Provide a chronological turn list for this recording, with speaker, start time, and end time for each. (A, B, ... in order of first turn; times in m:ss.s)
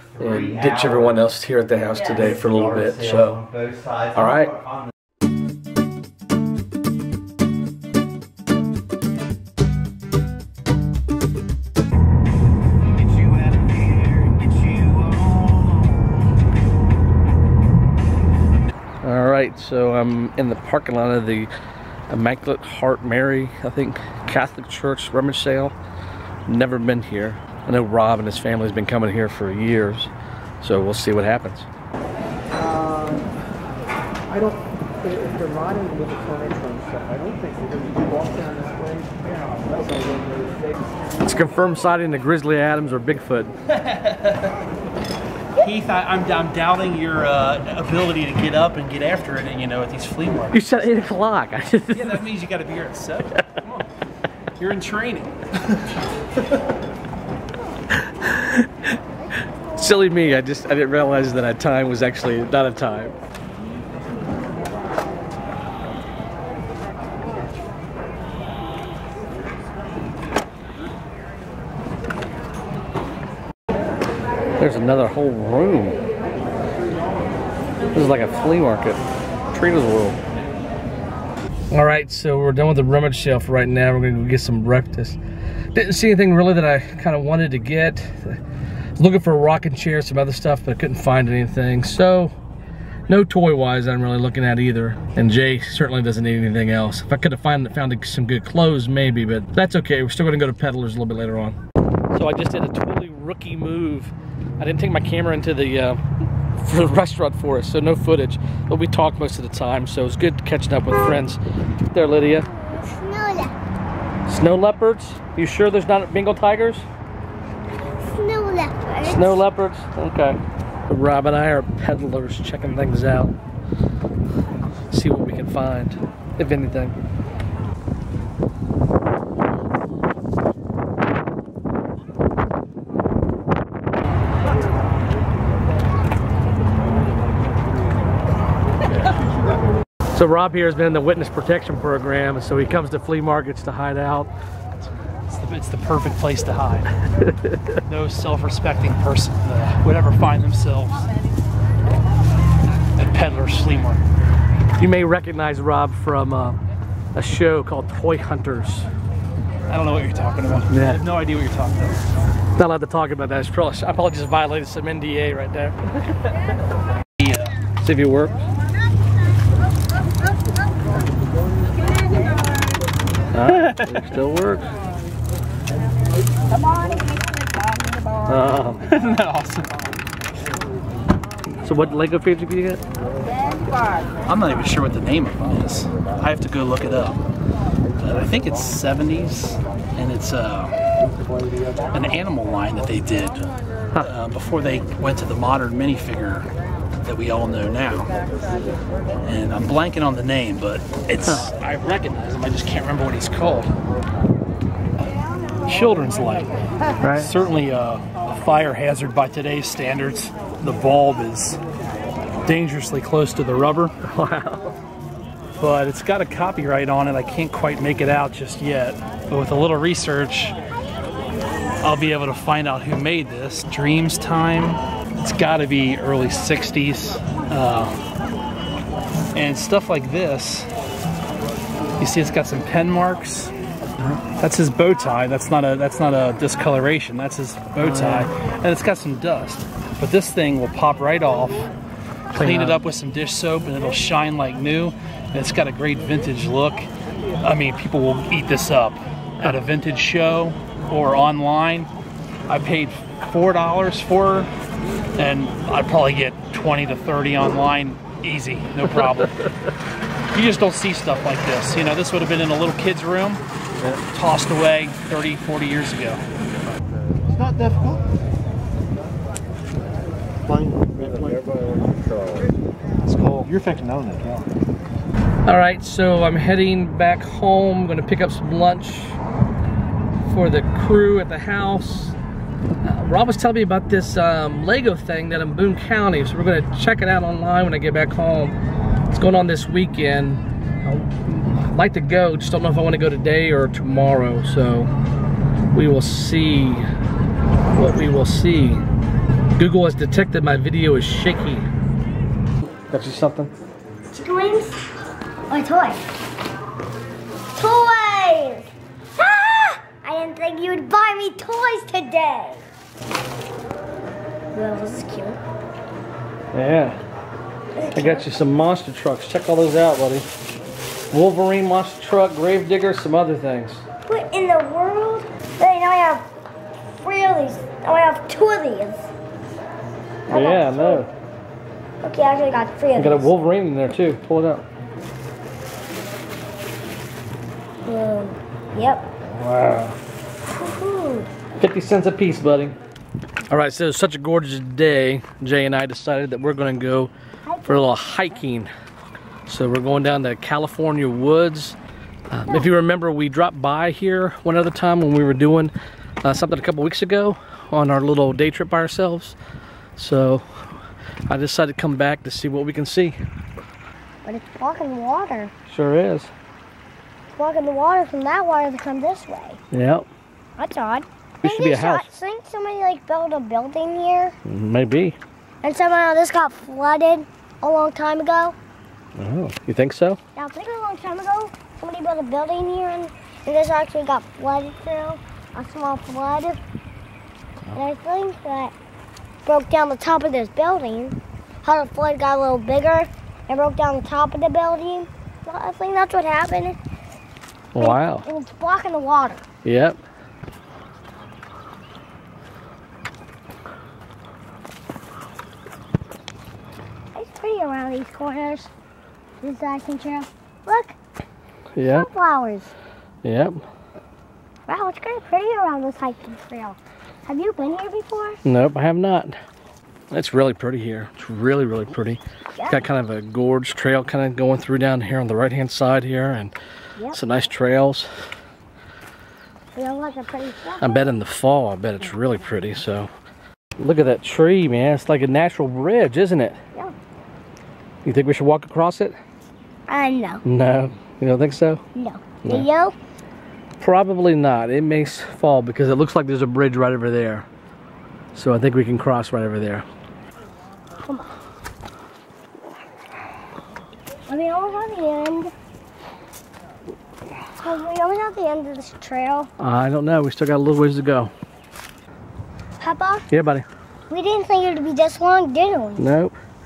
0:00.2-0:03.5 A
0:04.1-0:04.6 A
0:19.0-0:21.5 A
0:22.1-0:25.7 A
0:26.5-0:31.7 A
0:35.4-0:38.7 B
0:41.2-0:43.5 A
0:43.7-0:44.5 C
0:45.5-0:50.6 C
0:50.5-0:52.2 A
0:51.9-0:53.9 C
0:54.6-0:55.8 C
0:57.9-0:58.7 A
0:59.8-1:03.2 A
1:14.6-1:16.0 A
1:17.9-1:20.2 A
1:21.7-1:25.2 A
1:25.7-1:28.4 A
1:29.0-1:32.3 A
1:33.1-1:41.6 A
1:42.1-1:46.0 A
1:46.6-1:51.4 A
1:51.9-1:52.5 A
1:52.4-1:53.5 D
1:54.3-1:56.8 A
1:58.0-1:59.5 D
1:59.0-2:03.3 A
2:04.9-2:06.9 A
2:20.1-2:24.3 A
2:25.3-2:26.9 C
2:27.2-2:27.7 A
2:27.8-2:31.1 C
2:33.0-2:34.0 C
2:34.8-2:36.6 A
2:37.1-2:38.9 A
2:39.7-2:42.0 C
2:40.7-2:41.0 A
2:42.6-2:45.8 A
2:47.2-2:47.5 C
2:47.8-2:48.3 A
2:53.3-2:54.7 A
2:58.2-2:58.8 A
2:58.8-2:59.8 C
3:01.6-3:02.8 A
3:04.2-3:07.2 C
3:08.0-3:10.8 C
3:11.9-3:16.5 C
3:17.0-3:18.1 C
3:19.2-3:23.7 C
3:25.6-3:26.5 C
3:27.0-3:27.3 A
3:27.1-3:31.6 C
3:32.4-3:34.0 C
3:34.0-3:34.7 A
3:35.6-3:40.6 C
3:41.8-3:48.0 C
3:49.3-3:50.7 C
3:52.0-3:53.5 C
3:54.4-4:01.7 C
3:57.8-3:58.3 A
4:02.3-4:02.8 A
4:02.4-4:06.9 C
4:07.4-4:11.9 C
4:12.5-4:14.5 C
4:15.2-4:19.5 C
4:20.3-4:26.2 C
4:27.3-4:28.0 B
4:30.7-4:31.4 B
4:33.0-4:33.5 C
4:33.4-4:34.4 B
4:35.4-4:39.2 A
4:40.2-4:42.2 A
4:42.8-4:48.6 A
4:49.1-4:54.9 A
4:55.7-4:56.9 A
4:57.7-4:58.8 A
4:59.6-5:01.7 A
5:02.9-5:03.5 A
5:04.1-5:04.8 D
5:05.5-5:06.0 D
5:07.5-5:12.6 D
5:14.5-5:15.4 D
5:16.5-5:17.0 A
5:17.7-5:18.3 D
5:17.9-5:20.3 A
5:21.1-5:23.8 A
5:24.0-5:26.2 D
5:26.9-5:29.1 D
5:30.3-5:31.0 D
5:30.3-5:31.1 A
5:32.0-5:33.3 D
5:32.9-5:34.6 A
5:37.8-5:39.1 D
5:39.3-5:40.0 A
5:40.5-5:41.3 D
5:41.6-5:42.8 A
5:43.5-5:47.1 A
5:47.4-5:47.9 D
5:47.6-5:48.7 A
5:49.4-5:51.8 A
5:52.3-5:59.4 A
6:00.0-6:00.8 A
6:01.3-6:03.2 A
6:04.2-6:05.5 D
6:05.7-6:06.3 A
6:07.3-6:09.6 D
6:09.7-6:10.1 A
6:10.6-6:14.4 D
6:11.4-6:12.1 A
6:14.4-6:15.2 A
6:15.6-6:18.6 D
6:19.2-6:20.2 A
6:20.3-6:26.6 D
6:27.7-6:28.7 D
6:29.4-6:36.8 D
6:37.7-6:38.2 A
6:37.8-6:39.4 D
6:39.6-6:40.0 A
6:47.1-6:48.7 D
6:49.4-6:51.0 D
6:51.8-6:52.1 A
6:51.8-6:52.7 D
6:53.2-6:53.6 A
6:54.7-6:58.4 D
6:58.4-6:59.4 A
7:00.1-7:06.6 A
7:02.5-7:02.8 D
7:07.0-7:07.2 D
7:07.1-7:08.1 A
7:09.7-7:11.1 D
7:10.8-7:13.1 A
7:13.8-7:16.6 A
7:18.0-7:19.2 A
7:19.9-7:20.4 D
7:20.4-7:21.8 A
7:21.9-7:22.9 D
7:23.8-7:27.4 A
7:28.3-7:29.8 A
7:31.0-7:31.3 D
7:34.3-7:35.5 D
7:37.6-7:39.5 D
7:39.6-7:41.3 A
7:42.8-7:43.3 D
7:43.3-7:43.6 A
7:44.1-7:46.0 D
7:46.0-7:46.3 A